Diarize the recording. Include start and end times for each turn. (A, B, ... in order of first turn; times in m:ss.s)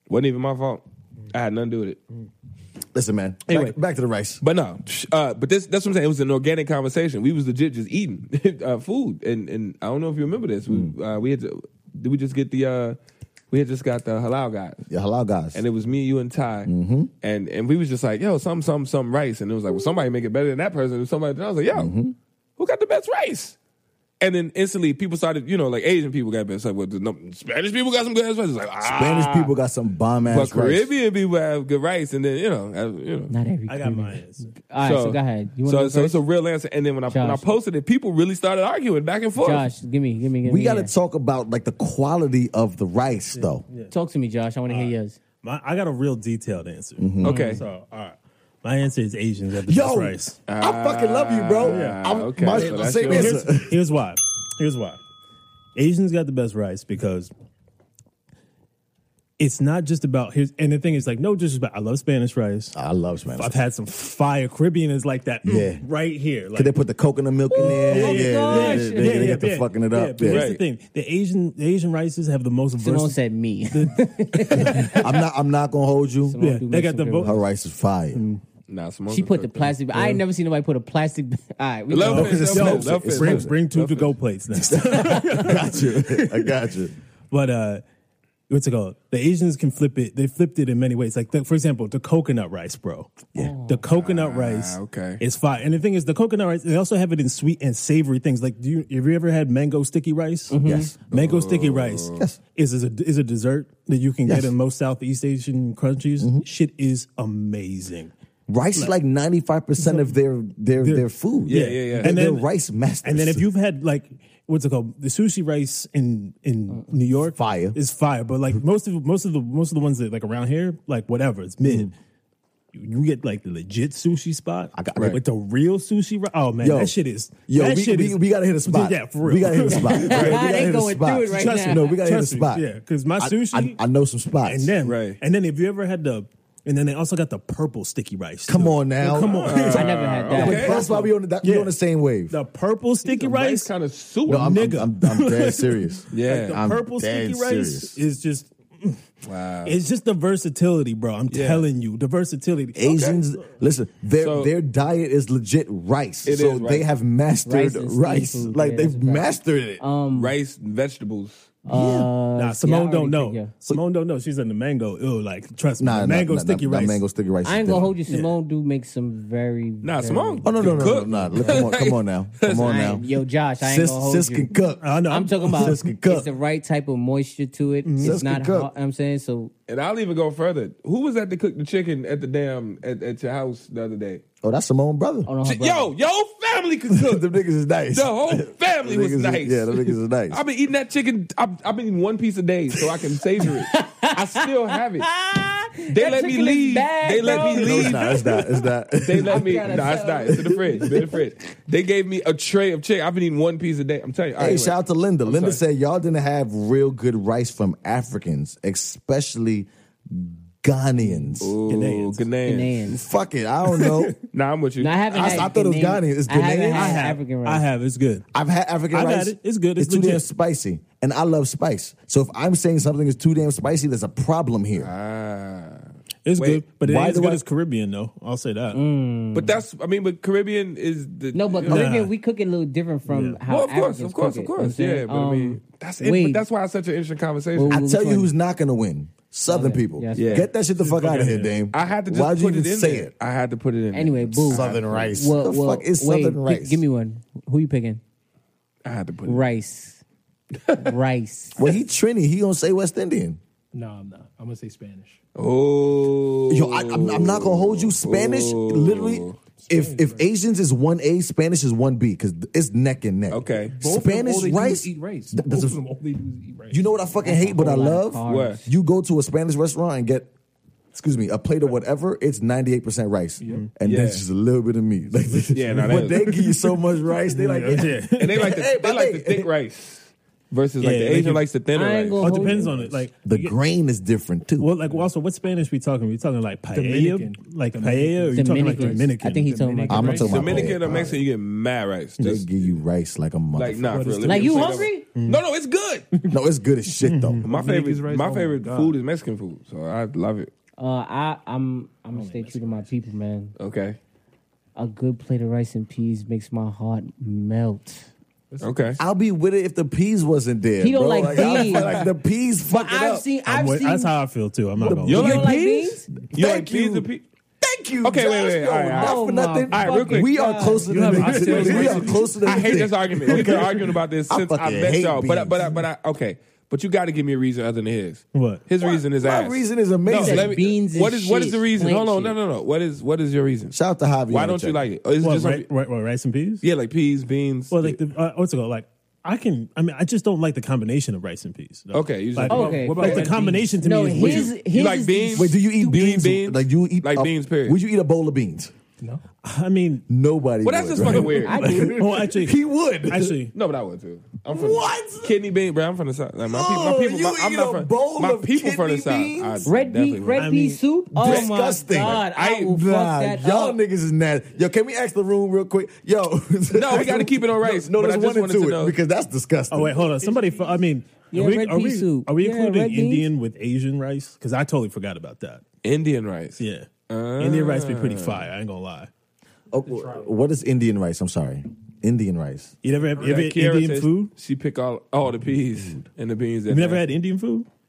0:00.1-0:02.0 A
0:02.9-0:04.4 B
0:04.4-0:13.0 A
0:10.7-0:10.9 B
0:13.5-0:14.8 A
0:14.9-0:15.6 B
0:15.5-0:16.7 A
0:16.7-0:17.1 B
0:17.2-0:21.9 A
0:21.7-0:22.2 B
0:22.6-0:23.6 A
0:24.2-0:29.5 A
0:28.8-0:30.9 B
0:30.3-0:33.3 A
0:33.3-0:36.2 C
0:33.7-0:34.5 D
0:34.8-0:39.7 A
0:37.1-0:37.5 C
0:39.4-0:40.9 C
0:40.4-0:43.6 B
0:43.3-0:43.9 D
0:43.9-0:45.2 C
0:44.7-0:50.4 D
0:47.0-0:47.6 B
0:47.2-0:47.6 A
0:47.3-0:47.6 C
0:49.6-0:53.8 B
0:50.5-0:53.4 A
0:51.6-0:55.0 D
0:55.8-0:57.3 D
0:59.4-1:02.8 D
1:02.7-1:03.6 B
1:03.4-1:06.8 D
1:05.4-1:05.8 B
1:06.5-1:10.5 B
1:07.5-1:09.4 C
1:07.6-1:13.2 D
1:10.2-1:10.6 A
1:12.8-1:15.1 C
1:13.7-1:15.0 D
1:14.6-1:16.4 B
1:16.2-1:17.4 C
1:16.4-1:17.4 D
1:17.2-1:18.2 B
1:18.7-1:19.7 A
1:19.1-1:22.4 C
1:19.9-1:20.2 D
1:21.9-1:24.2 A
1:22.0-1:26.6 D
1:22.1-1:23.6 B
1:24.7-1:26.9 B
1:27.3-1:27.8 D
1:28.5-1:48.1 D
1:33.4-1:33.9 C
1:33.9-1:35.2 A
1:40.5-1:40.9 C
1:40.6-1:41.1 B
1:41.1-1:42.3 A
1:44.2-1:44.5 B
1:46.2-1:46.5 B
1:48.5-1:53.5 B
1:49.8-1:50.2 D
1:50.8-1:52.5 D
1:51.5-1:52.1 A
1:53.0-2:02.0 D
1:57.4-1:57.8 B
2:01.6-2:01.9 B
2:02.7-2:10.4 D
2:04.7-2:05.2 B
2:06.6-2:12.7 B
2:09.8-2:11.9 C
2:10.0-2:10.4 A
2:11.3-2:13.8 D
2:13.2-2:14.7 B
2:14.4-2:21.8 D
2:14.8-2:15.2 A
2:18.5-2:19.6 B
2:19.3-2:20.8 A
2:19.6-2:21.1 C
2:20.3-2:22.4 B
2:22.3-2:23.7 D
2:23.0-2:24.6 A
2:24.3-2:28.0 B
2:24.3-2:29.0 D
2:26.1-2:26.6 A
2:29.2-2:29.8 A
2:29.6-2:33.2 D
2:31.3-2:31.7 A
2:32.7-2:39.8 B
2:32.9-2:33.2 A
2:34.2-2:34.5 A
2:36.2-2:36.9 A
2:37.5-2:40.3 C
2:40.1-2:41.5 A
2:41.6-2:43.5 C
2:41.7-2:42.1 B
2:42.4-2:47.0 D
2:45.8-2:48.0 B
2:47.4-2:50.9 C
2:49.8-2:52.9 A
2:50.4-2:53.0 B
2:52.6-2:54.5 C
2:53.6-2:54.9 B
2:54.8-2:55.8 D
2:55.1-2:59.5 C
2:55.5-2:56.3 B
2:57.8-2:58.2 D
2:58.0-2:58.7 B
2:59.7-3:04.2 A
3:04.4-3:05.3 B
3:05.3-3:05.9 C
3:05.4-3:07.3 A
3:06.9-3:10.4 B
3:07.9-3:15.1 A
3:13.4-3:18.4 C
3:15.9-3:18.2 A
3:17.5-3:21.0 B
3:19.0-3:25.6 A
3:19.2-3:20.9 C
3:24.4-3:31.6 B
3:31.4-3:32.9 A
3:31.7-3:32.3 D
3:32.4-3:33.0 C
3:32.9-3:34.2 B
3:33.7-3:34.1 D
3:34.3-3:35.5 A
3:34.8-3:37.7 C
3:35.1-3:37.0 B
3:36.7-3:38.3 D
3:38.3-3:44.9 B
3:38.9-3:40.2 D
3:44.8-3:46.6 A
3:46.2-3:48.8 D
3:46.8-3:47.4 B
3:48.7-3:49.6 C
3:49.3-3:51.9 A
3:51.3-3:56.4 C
3:51.7-3:52.1 D
3:53.1-3:53.4 D
3:53.5-3:57.8 A
3:57.6-3:58.3 C
3:57.7-4:03.1 B
3:59.5-4:00.5 C
4:00.1-4:00.5 A
4:00.8-4:01.6 D
4:01.7-4:05.1 A
4:03.9-4:08.0 C
4:04.5-4:06.8 B
4:08.8-4:09.5 A
4:09.2-4:10.0 C
4:10.6-4:10.9 A
4:10.8-4:11.6 C
4:11.6-4:13.4 B
4:13.7-4:15.2 E
4:15.4-4:19.4 A
4:16.5-4:25.8 B
4:19.6-4:20.3 E
4:23.3-4:23.8 A
4:23.7-4:27.1 E
4:26.7-4:30.3 B
4:27.2-4:28.7 C
4:28.3-4:28.6 A
4:30.9-4:39.5 B
4:33.4-4:33.7 E
4:33.8-4:34.2 A
4:35.5-4:36.3 A
4:35.7-4:36.7 D
4:37.3-4:38.5 D
4:38.2-4:42.9 A
4:40.8-4:41.4 D
4:41.8-4:42.8 C
4:42.2-4:43.6 D
4:43.2-4:44.7 B
4:44.6-4:49.6 D
4:46.7-4:50.9 E
4:48.4-4:50.4 C
4:49.9-4:51.2 B
4:50.2-4:52.8 A
4:50.3-4:50.7 D
4:52.2-4:54.2 B
4:53.5-4:56.1 A
4:54.0-4:54.9 E
4:54.2-4:55.1 C
4:55.2-4:55.4 D
4:56.3-4:57.4 B
4:57.0-4:57.5 D
4:57.4-4:59.0 E
4:57.4-5:00.5 A
5:00.8-5:03.5 C
5:02.1-5:03.0 E
5:03.6-5:04.0 A
5:04.8-5:08.1 C
5:08.5-5:09.0 E
5:08.6-5:09.0 A
5:09.0-5:13.3 B
5:10.8-5:12.0 C
5:11.4-5:12.1 A
5:12.7-5:14.2 C
5:13.5-5:15.5 D
5:14.8-5:15.6 B
5:14.9-5:16.1 C
5:14.9-5:17.2 A
5:16.2-5:17.1 B
5:17.6-5:25.8 B
5:18.0-5:20.3 A
5:19.0-5:21.7 C
5:20.9-5:33.8 A
5:20.9-5:22.2 D
5:21.0-5:22.4 E
5:23.3-5:23.6 D
5:28.3-5:28.6 D
5:28.8-5:30.5 B
5:30.1-5:32.4 C
5:33.7-5:34.8 B
5:34.3-5:35.7 A
5:35.2-5:36.6 D
5:36.6-5:38.0 A
5:37.7-5:44.5 D
5:41.9-5:43.2 A
5:42.5-5:45.6 C
5:42.7-5:43.7 E
5:44.1-5:47.8 A
5:45.4-5:48.7 B
5:49.4-5:50.0 D
5:50.1-5:53.4 B
5:50.6-5:51.6 A
5:51.0-5:53.5 D
5:51.4-5:52.0 C
5:53.5-6:00.5 A
5:54.4-5:55.4 B
5:56.5-5:59.7 B
5:59.6-6:03.8 C
6:00.4-6:00.8 D
6:01.1-6:10.0 B
6:01.2-6:02.8 A
6:06.7-6:09.0 A
6:09.7-6:15.6 D
6:09.9-6:10.9 E
6:11.3-6:13.3 C
6:15.8-6:18.5 A
6:16.6-6:19.1 D
6:19.7-6:22.7 B
6:19.8-6:20.3 E
6:22.8-6:24.3 D
6:23.2-6:23.4 E
6:23.2-6:27.0 A
6:26.7-6:27.7 D